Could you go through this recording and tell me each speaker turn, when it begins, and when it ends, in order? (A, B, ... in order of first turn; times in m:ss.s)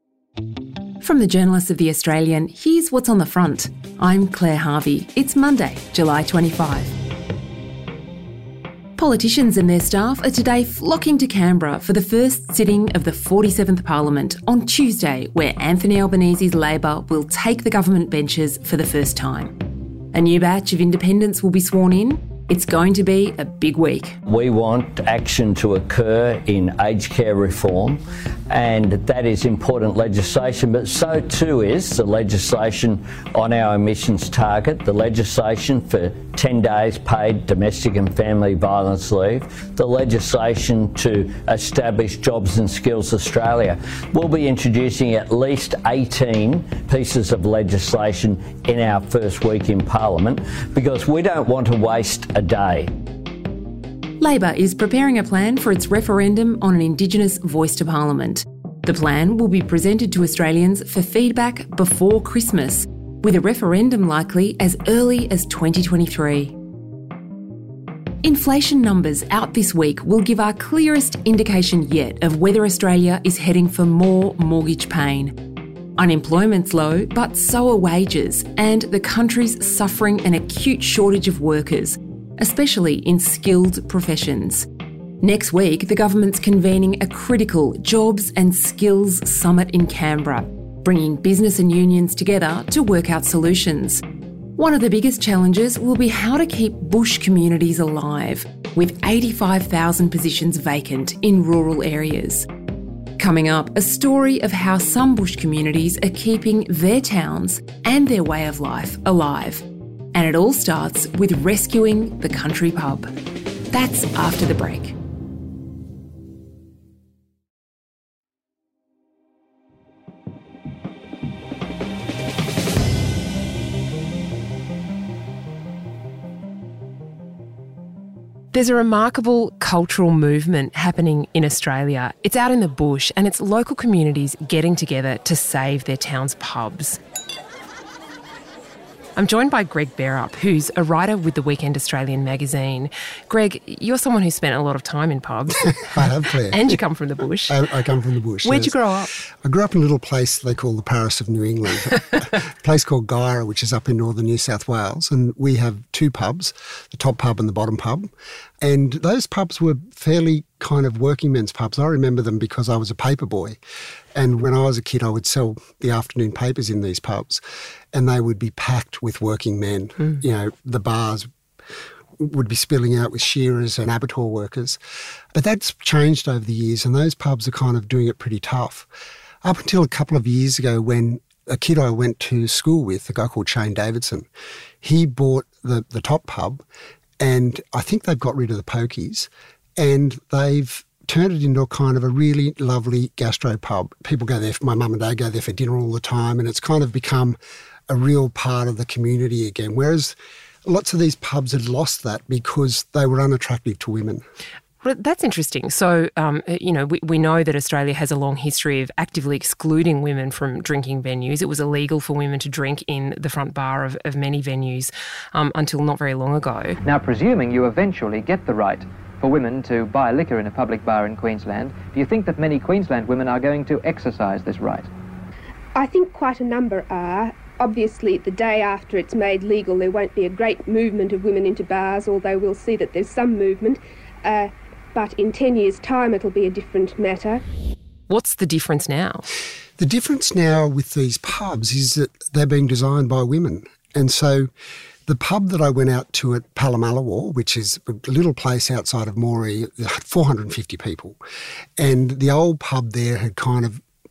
0:01.0-0:06.9 A
0:09.0-0:19.6 A
0:20.1-0:24.2 A
0:24.2-0:52.9 B
0:54.2-1:06.6 A
1:08.2-1:15.4 A
1:16.0-1:24.7 A
1:25.2-1:34.0 A
1:34.6-1:42.5 A
1:43.2-1:53.1 A
1:53.7-1:55.0 A
2:08.5-2:17.0 A
2:19.2-2:27.6 A
2:25.8-2:26.8 C
2:27.5-2:28.8 C
2:28.4-2:29.1 A
2:29.4-2:38.1 C
2:38.6-2:43.6 C
2:44.1-2:47.4 C
2:47.9-2:51.3 C
2:52.2-2:54.8 C
2:55.3-2:58.9 C
2:59.4-3:04.3 C
3:04.8-3:06.6 C
3:07.2-3:17.4 C
3:17.9-3:24.2 C
3:24.8-3:36.8 A
3:36.8-3:44.9 D
3:45.7-3:57.4 E
3:58.1-3:59.2 A
3:59.8-4:04.5 C
4:05.1-4:11.2 C
4:11.8-4:13.8 C